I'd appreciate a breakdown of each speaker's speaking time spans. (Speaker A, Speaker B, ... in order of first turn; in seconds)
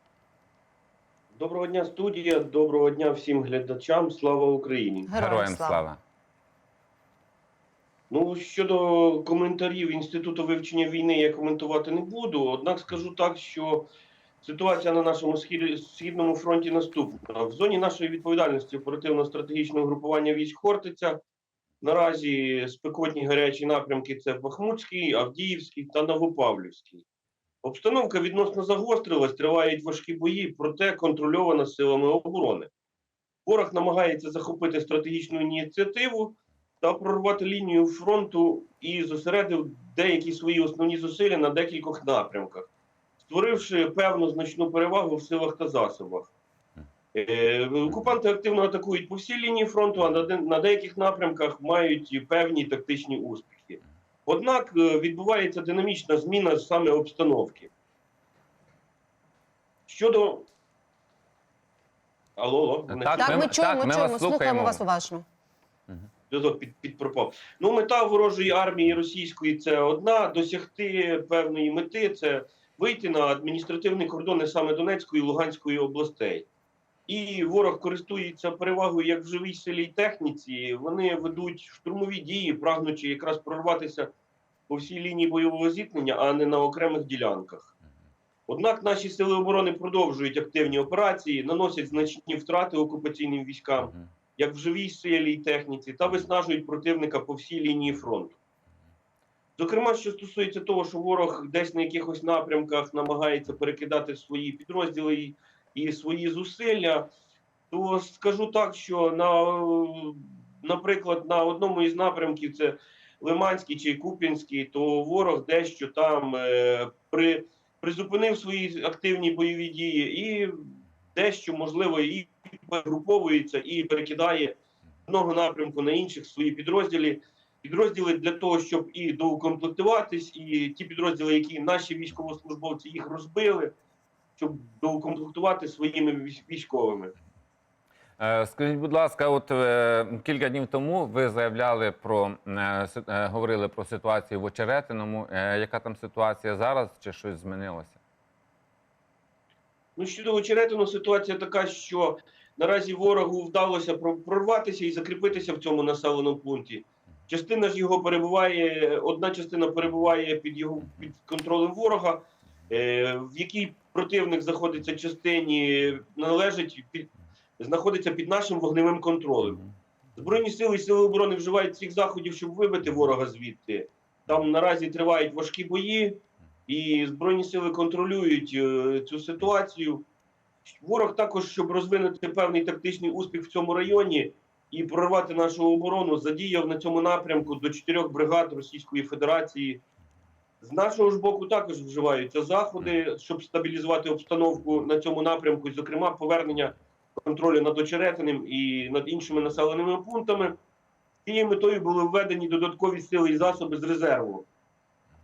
Speaker A: 1.3-5.1, 8.1-13.9, 14.4-21.2, 21.8-27.1, 27.6-32.7, 33.5-42.7, 43.2-46.3, 47.1-57.7, 59.9-60.5, 62.4-63.5, 66.3-76.5, 77.1-84.1, 84.7-87.7, 88.5-98.4, 99.6-107.1, 107.7-133.7, 134.4-137.1, 149.9-169.6, 170.2-180.1, 180.6-189.8, 190.6-200.6, 201.2-204.5
Speaker B: 5.1-5.8, 63.1-65.2
Speaker C: 5.2-6.0, 62.9-64.8, 138.2-148.0